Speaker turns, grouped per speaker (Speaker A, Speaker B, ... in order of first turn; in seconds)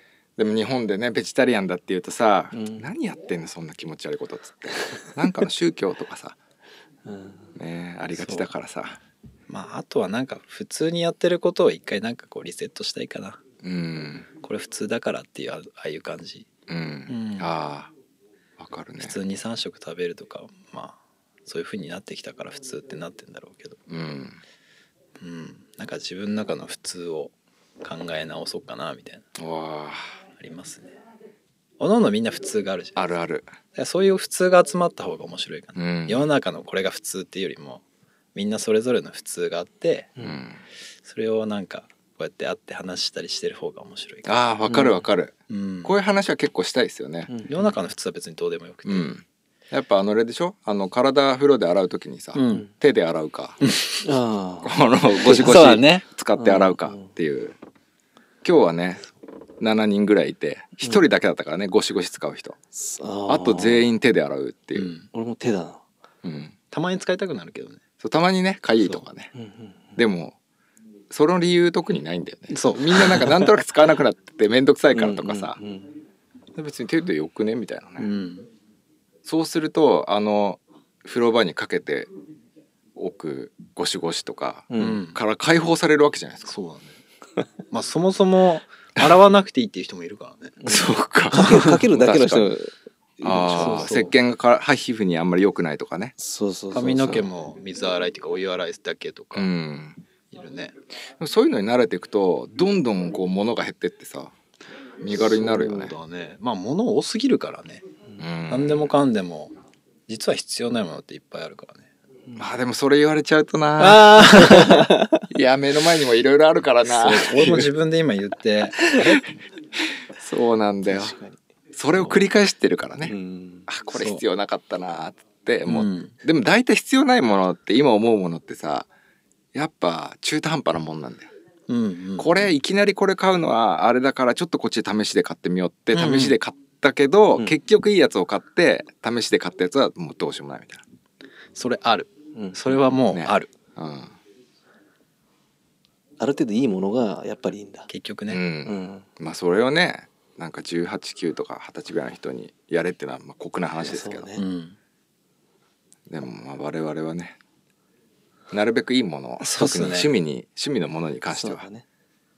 Speaker A: 0.4-6.4, 7.5-9.0, 13.6-14.3, 16.7-17.9, 18.6-19.2, 23.9-24.4, 29.4-30.0, 32.9-33.5, 35.7-36.3, 40.2-40.6, 44.2-47.3, 48.8-53.6, 54.6-57.5, 58.4-59.1, 59.6-62.6, 63.3-64.9, 66.2-66.5, 68.0-69.3, 70.0-70.3, 71.1-75.6, 76.5-78.1, 79.2-82.1, 82.9-86.6, 90.7-92.5, 93.2-96.1, 99.3-100.0, 101.2-104.3, 105.0-106.0, 108.2-108.9, 112.4-114.7, 115.3-117.7, 120.2-121.2, 121.7-128.9, 129.5-131.3, 132.2-140.8, 143.1-144.2, 148.3-154.3, 156.1-157.4, 158.5-161.7
Speaker B: 2.5-2.9, 7.0-7.5, 47.3-47.6, 54.0-55.6, 56.4-57.1, 62.7-63.9, 65.1-65.8, 69.3-69.9, 74.9-75.9, 84.7-85.0, 90.6-94.0, 96.2-97.2, 105.2-105.7, 120.8-121.4, 123.0-123.7, 146.2-147.9, 148.7-149.1, 153.8-154.4, 161.3-161.8
Speaker C: 8.1-8.5, 9.5-13.4, 14.4-16.5, 17.1-17.5, 19.0-23.8, 25.2-29.2, 30.4-30.9, 31.8-33.0, 33.7-37.8, 38.3-40.1, 41.0-44.3, 45.5-45.9, 47.5-49.1, 52.3-52.6, 53.6-54.0, 55.3-56.0, 64.7-65.1, 66.7-67.8, 72.5-73.4, 78.0-78.5, 84.8-85.2, 86.5-86.9, 87.7-90.5, 91.4-91.7, 93.5-94.1, 96.7-99.5, 100.3-100.7, 105.3-107.8, 108.5-109.5, 110.1-111.9, 113.8-115.1, 116.8-119.2, 123.9-124.2, 125.7-126.1, 131.7-132.3, 135.9-136.4, 141.6-143.5, 147.9-148.4, 154.4-154.8, 159.4-160.1